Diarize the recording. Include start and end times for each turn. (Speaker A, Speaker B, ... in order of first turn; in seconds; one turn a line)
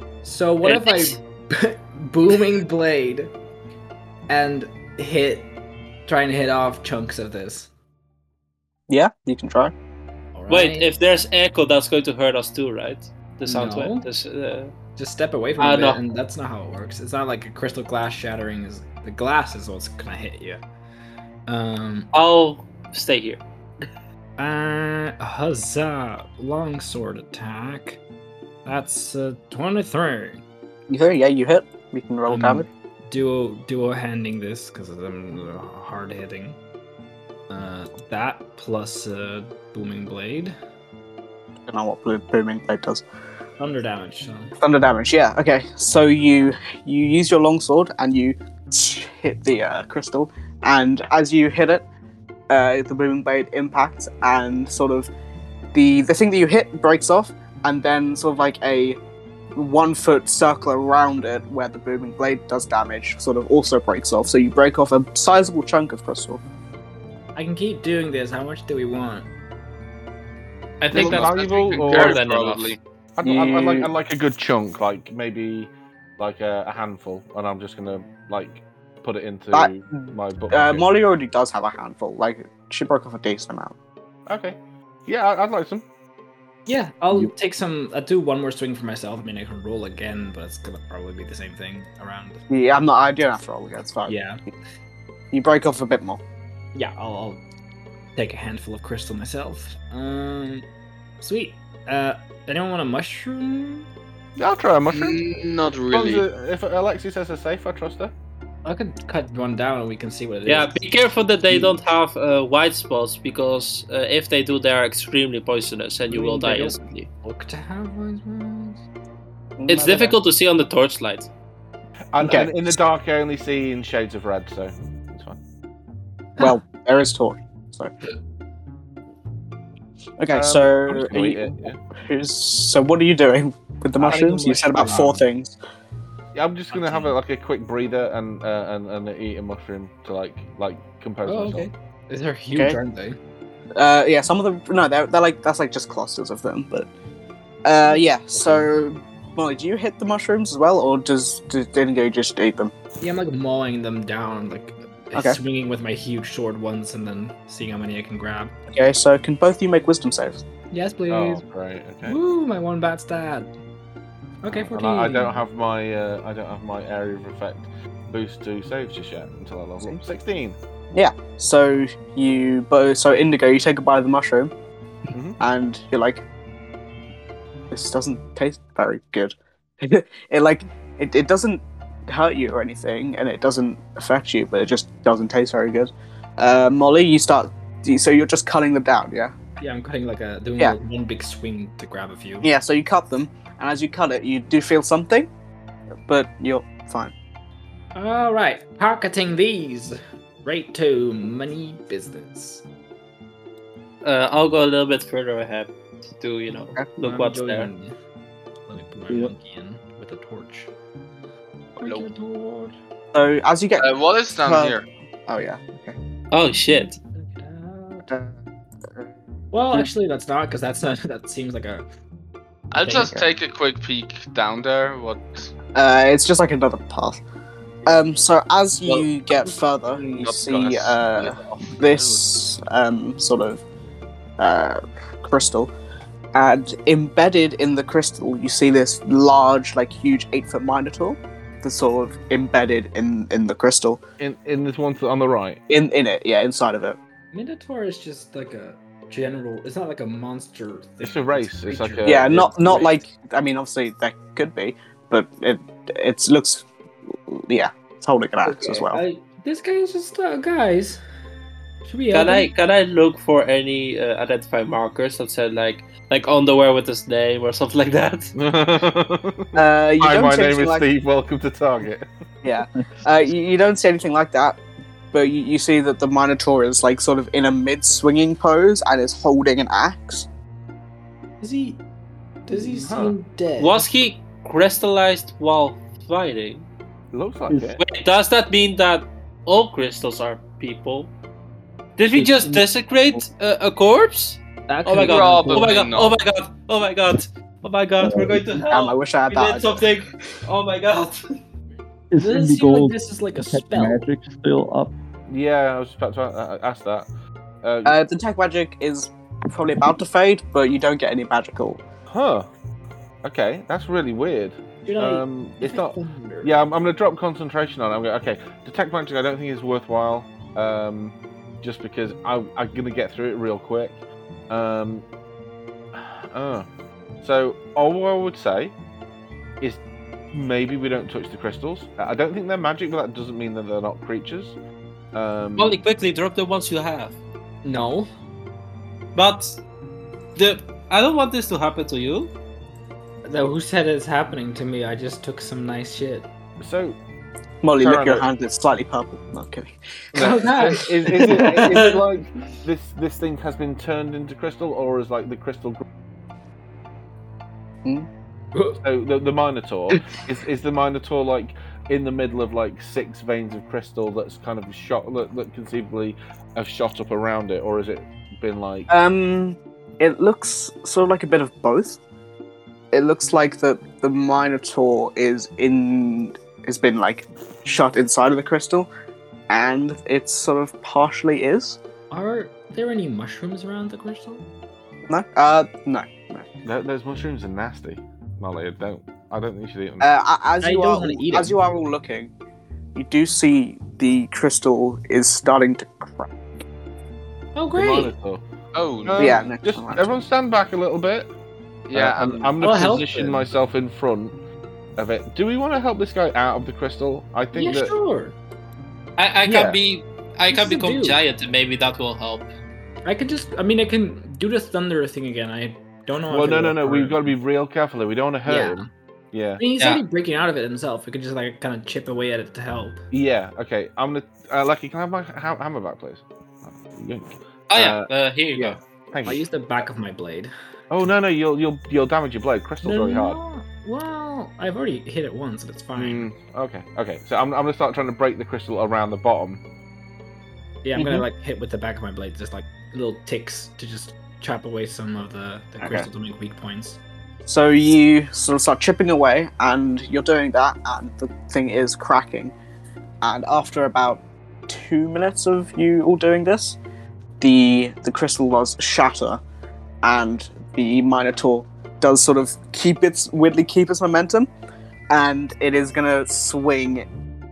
Speaker A: 0.2-3.3
Speaker B: 0.6-1.2
Speaker A: 4.3-5.5
Speaker A: 6.1-7.7
Speaker C: 8.9-9.7
Speaker A: 10.3-10.9
Speaker B: 10.5-14.7
Speaker A: 13.5-14.1
Speaker A: 15.0-20.6
Speaker B: 15.6-16.0
Speaker A: 21.5-22.1
Speaker B: 22.1-23.4
Speaker A: 24.4-28.0
Speaker A: 28.6-30.4
Speaker C: 30.9-32.7
Speaker A: 32.3-36.6
Speaker A: 37.5-40.5
Speaker C: 41.7-43.0
Speaker A: 43.6-44.6
Speaker C: 44.6-51.9
Speaker C: 52.5-55.1
Speaker C: 55.7-59.0
Speaker C: 59.6-66.4
Speaker A: 67.4-69.3
Speaker B: 70.8-72.8
Speaker D: 70.9-72.2
Speaker E: 70.9-72.8
Speaker D: 73.2-80.8
Speaker C: 73.2-73.9
Speaker C: 79.5-83.8
Speaker D: 84.3-85.8
Speaker A: 86.7-92.4
Speaker C: 92.5-94.1
Speaker A: 94.1-94.4
Speaker C: 95.3-96.2
Speaker A: 96.8-97.4
Speaker A: 98.2-100.7
Speaker A: 101.2-103.9
Speaker D: 104.4-105.2
Speaker E: 104.9-106.2
Speaker D: 105.9-108.1
Speaker A: 108.7-110.8
Speaker B: 110.5-117.1
Speaker A: 111.5-111.8
Speaker A: 116.1-118.8
Speaker C: 119.6-120.2
Speaker B: 119.7-121.3
Speaker D: 122.1-125.4
Speaker C: 122.2-122.8
Speaker C: 126.4-127.9
Speaker C: 130.2-135.6
Speaker D: 130.3-131.8
Speaker D: 134.0-135.2
Speaker A: 134.0-135.2
Speaker D: 136.3-141.7
Speaker A: 136.7-137.2
Speaker A: 141.2-143.2
Speaker C: 143.8-146.9
Speaker C: 147.7-152.7
Speaker A: 147.9-148.6
Speaker A: 153.0-158.6
Speaker C: 158.7-160.4
Speaker A: 160.7-161.4
Speaker D: 161.1-162.2
Speaker A: 162.1-163.5
Speaker A: 164.4-165.4
Speaker D: 164.5-170.6
Speaker C: 170.9-174.5
Speaker D: 175.1-175.4
Speaker C: 175.4-176.2
Speaker C: 177.7-189.3
Speaker A: 189.6-192.5
Speaker C: 192.4-195.3
Speaker C: 196.1-197.1
Speaker A: 197.9-202.6
Speaker B: 204.0-207.7
Speaker A: 207.0-207.9
Speaker A: 208.7-210.7
Speaker F: 209.1-209.3
Speaker E: 211.8-212.1
Speaker A: 211.8-212.8
Speaker C: 213.1-216.0
Speaker E: 213.8-214.9
Speaker B: 216.3-217.0
Speaker A: 216.5-218.2
Speaker A: 219.5-221.9
Speaker E: 222.7-225.5
Speaker A: 222.8-223.1
Speaker C: 222.9-223.3
Speaker C: 225.7-227.2
Speaker C: 227.9-233.6
Speaker E: 229.9-232.2
Speaker C: 234.4-235.7
Speaker C: 236.3-244.0
Speaker D: 244.2-245.6
Speaker C: 245.7-247.0
Speaker A: 247.3-252.9
Speaker D: 251.0-252.9
Speaker C: 252.0-256.7
Speaker C: 257.3-259.0
Speaker A: 258.4-261.0
Speaker A: 261.8-262.5
Speaker B: 262.1-268.3
Speaker D: 268.4-272.1
Speaker C: 269.6-270.9
Speaker C: 272.4-274.6
Speaker C: 275.1-280.3
Speaker A: 281.4-281.8
Speaker A: 282.5-283.9
Speaker D: 282.6-283.2
Speaker B: 283.6-286.7
Speaker D: 287.1-287.8
Speaker F: 287.5-287.8
Speaker B: 287.8-291.1
Speaker B: 292.0-301.2
Speaker F: 292.1-292.6
Speaker A: 294.7-295.7
Speaker E: 295.0-296.2
Speaker F: 298.0-298.6
Speaker C: 298.7-299.9
Speaker F: 302.1-304.9
Speaker A: 302.2-304.0
Speaker D: 305.3-307.1
Speaker D: 307.6-308.0
Speaker C: 307.9-311.8
Speaker D: 312.1-312.5
Speaker D: 313.2-325.1
Speaker A: 314.9-316.5
Speaker D: 325.9-326.7
Speaker D: 327.2-328.8
Speaker D: 329.6-334.6
Speaker D: 335.1-335.8
Speaker B: 335.6-337.2
Speaker A: 337.6-338.1
Speaker B: 339.1-339.6
Speaker B: 340.4-342.3
Speaker A: 343.3-346.3
Speaker D: 346.6-347.0
Speaker C: 347.6-350.6
Speaker D: 347.8-348.2
Speaker D: 350.1-355.8
Speaker A: 350.2-351.6
Speaker B: 351.1-352.1
Speaker A: 358.6-358.8
Speaker D: 358.8-368.9
Speaker C: 368.9-372.0
Speaker C: 372.9-378.9
Speaker C: 379.5-381.8
Speaker A: 382.1-384.4
Speaker C: 385.1-386.5
Speaker D: 386.7-390.1
Speaker C: 390.0-392.3
Speaker A: 390.6-391.6
Speaker C: 392.9-396.4
Speaker A: 397.6-398.1
Speaker D: 397.8-398.4
Speaker E: 398.7-399.4
Speaker D: 399.1-401.3
Speaker C: 399.2-400.1
Speaker E: 401.9-403.1
Speaker D: 401.9-404.4
Speaker A: 402.6-403.5
Speaker D: 405.0-407.9
Speaker A: 407.5-408.4
Speaker B: 409.2-412.5
Speaker D: 409.5-409.8
Speaker A: 410.5-411.2
Speaker A: 413.1-417.4
Speaker D: 416.3-418.8
Speaker A: 418.4-418.9
Speaker D: 419.3-419.6
Speaker A: 419.6-423.1
Speaker D: 423.1-429.4
Speaker B: 427.7-428.8
Speaker A: 429.2-430.5
Speaker D: 430.9-433.4
Speaker A: 432.8-436.3
Speaker D: 435.9-439.6
Speaker A: 440.8-447.0
Speaker C: 445.8-446.1
Speaker C: 447.5-452.6
Speaker C: 453.2-456.8
Speaker C: 457.4-459.4
Speaker C: 460.0-464.5
Speaker C: 465.1-467.1